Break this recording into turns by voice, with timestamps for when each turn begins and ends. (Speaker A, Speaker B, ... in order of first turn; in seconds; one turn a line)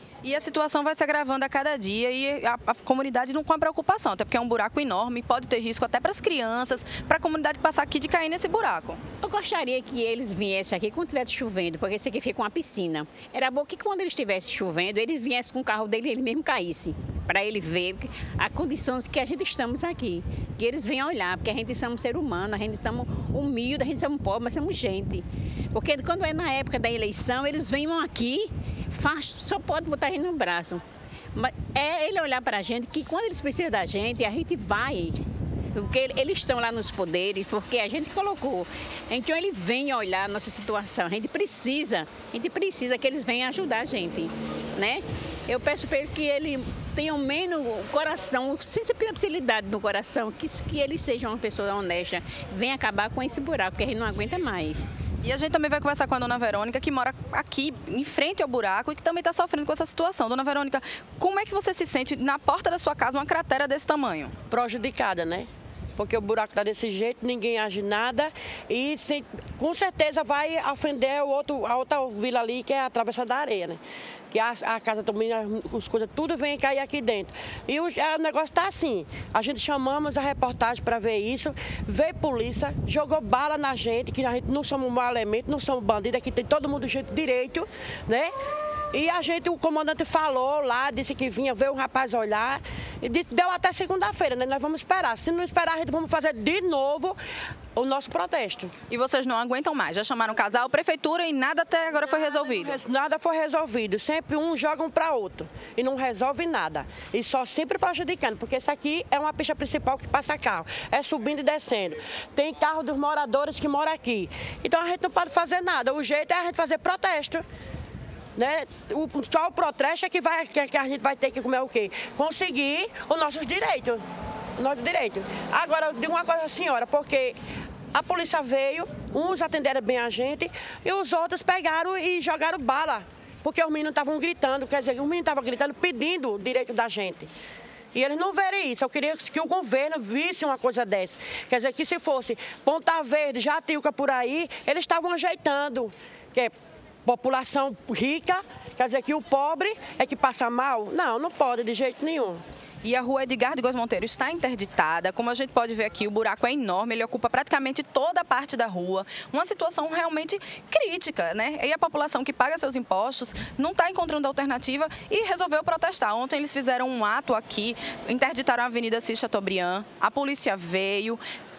Speaker A: 0.2-9.0
Speaker B: 9.2-30.8
Speaker B: 31.3-35.2
Speaker B: 35.7-54.9
Speaker A: 55.2-64.3
Speaker C: 64.5-73.8
Speaker C: 74.3-88.3
Speaker C: 88.9-97.2
Speaker C: 97.7-98.7
Speaker A: 98.9-102.8
Speaker C: 102.0-117.4
Speaker C: 118.4-124.0
Speaker C: 124.6-127.4
Speaker C: 127.9-137.3
Speaker C: 137.9-146.5
Speaker C: 147.1-152.4
Speaker A: 152.8-171.2